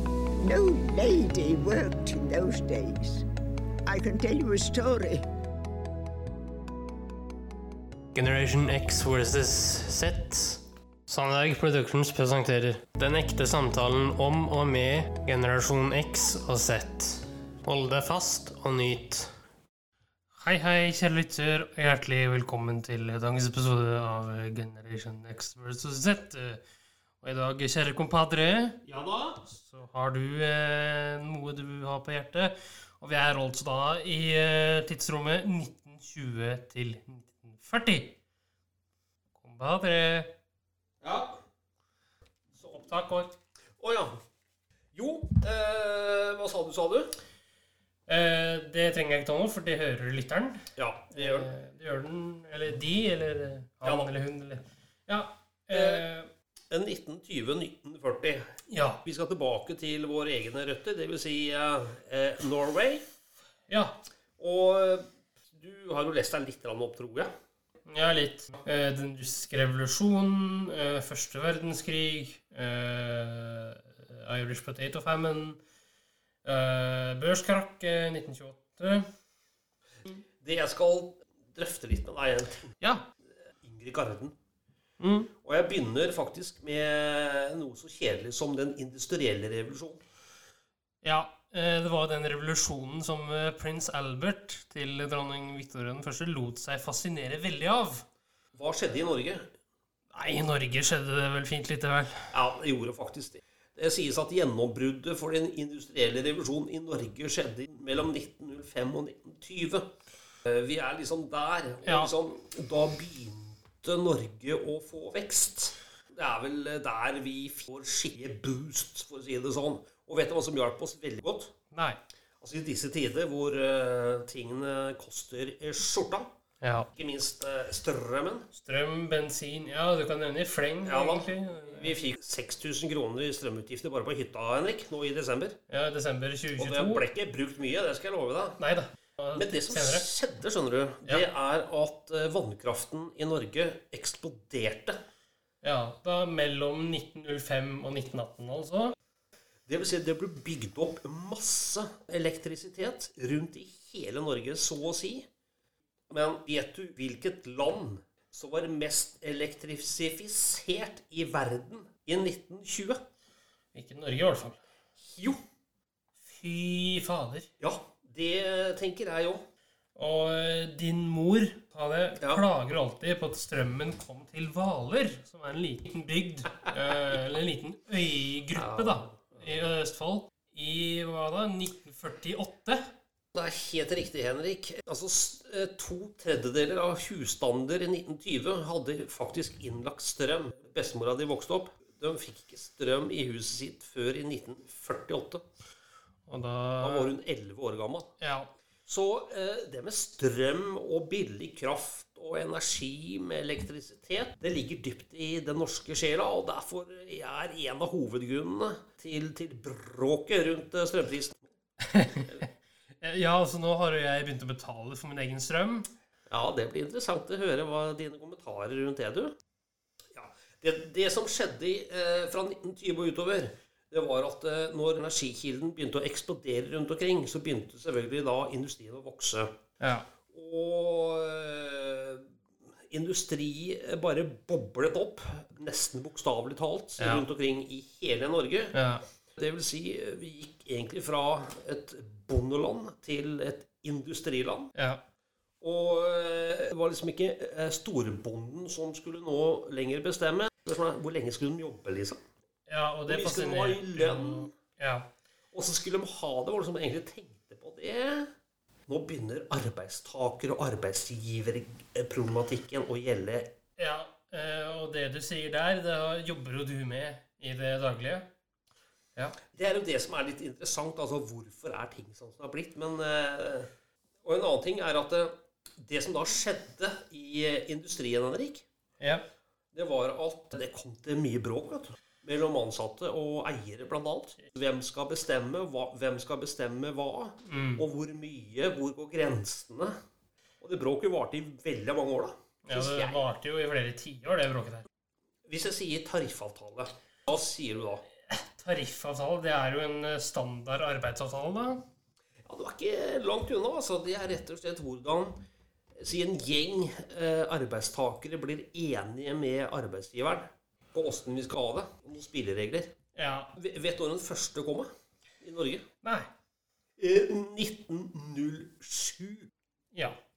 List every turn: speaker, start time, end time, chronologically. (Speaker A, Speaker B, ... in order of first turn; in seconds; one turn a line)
Speaker A: 0.4-3.2
Speaker A: 3.9-5.2
Speaker B: 8.1-19.3
Speaker B: 20.4-26.6
Speaker B: 27.2-28.8
Speaker C: 28.9-29.4
Speaker B: 29.4-38.2
Speaker B: 39.4-40.3
Speaker C: 41.0-41.4
Speaker C: 42.6-42.9
Speaker B: 42.7-43.3
Speaker C: 43.8-44.1
Speaker C: 44.9-47.1
Speaker B: 48.1-50.6
Speaker C: 50.8-51.5
Speaker B: 51.1-56.3
Speaker C: 53.8-54.1
Speaker C: 55.7-56.0
Speaker C: 56.7-58.5
Speaker B: 58.7-59.0
Speaker C: 59.0-63.0
Speaker B: 63.7-64.0
Speaker C: 64.4-67.3
Speaker B: 67.9-75.6
Speaker B: 76.4-79.1
Speaker C: 80.4-82.7
Speaker B: 82.8-83.1
Speaker C: 83.6-84.3
Speaker B: 85.0-85.3
Speaker C: 85.4-90.0
Speaker B: 91.0-98.0
Speaker C: 98.5-99.5
Speaker B: 100.1-102.3
Speaker C: 102.3-109.9
Speaker C: 110.4-121.5
Speaker B: 111.8-112.1
Speaker B: 121.7-122.0
Speaker C: 122.4-126.3
Speaker B: 126.6-126.9
Speaker C: 126.9-128.5
Speaker B: 128.5-131.9
Speaker C: 130.8-135.6
Speaker B: 135.7-137.1
Speaker C: 136.6-138.6
Speaker B: 138.6-140.1
Speaker C: 139.3-145.0
Speaker B: 145.6-148.9
Speaker C: 149.7-155.3
Speaker C: 156.1-163.0
Speaker B: 163.7-164.6
Speaker C: 165.0-165.4
Speaker B: 166.2-167.5
Speaker C: 167.6-169.4
Speaker B: 169.9-182.8
Speaker C: 178.5-179.4
Speaker C: 183.3-195.4
Speaker B: 196.3-197.1
Speaker C: 196.8-198.1
Speaker B: 198.2-198.5
Speaker C: 198.9-211.5
Speaker B: 211.9-212.4
Speaker B: 213.0-215.9
Speaker C: 216.3-219.3
Speaker C: 220.1-229.5
Speaker B: 229.8-230.1
Speaker C: 230.3-232.3
Speaker C: 232.9-238.7
Speaker B: 237.0-237.2
Speaker B: 238.7-239.0
Speaker C: 239.4-244.7
Speaker B: 244.7-245.0
Speaker C: 245.6-252.2
Speaker B: 252.7-255.1
Speaker C: 253.1-254.5
Speaker C: 255.5-258.3
Speaker C: 258.9-263.5
Speaker B: 263.8-268.3
Speaker C: 269.5-273.7
Speaker C: 274.2-278.6
Speaker C: 279.7-289.9
Speaker B: 287.4-287.8
Speaker C: 290.6-293.2
Speaker B: 292.6-294.9
Speaker C: 295.5-298.0
Speaker B: 298.3-301.8
Speaker C: 302.4-305.4
Speaker C: 306.0-312.9
Speaker B: 313.1-313.5
Speaker C: 313.6-314.9
Speaker C: 315.4-315.9
Speaker B: 316.0-316.3
Speaker C: 317.0-319.5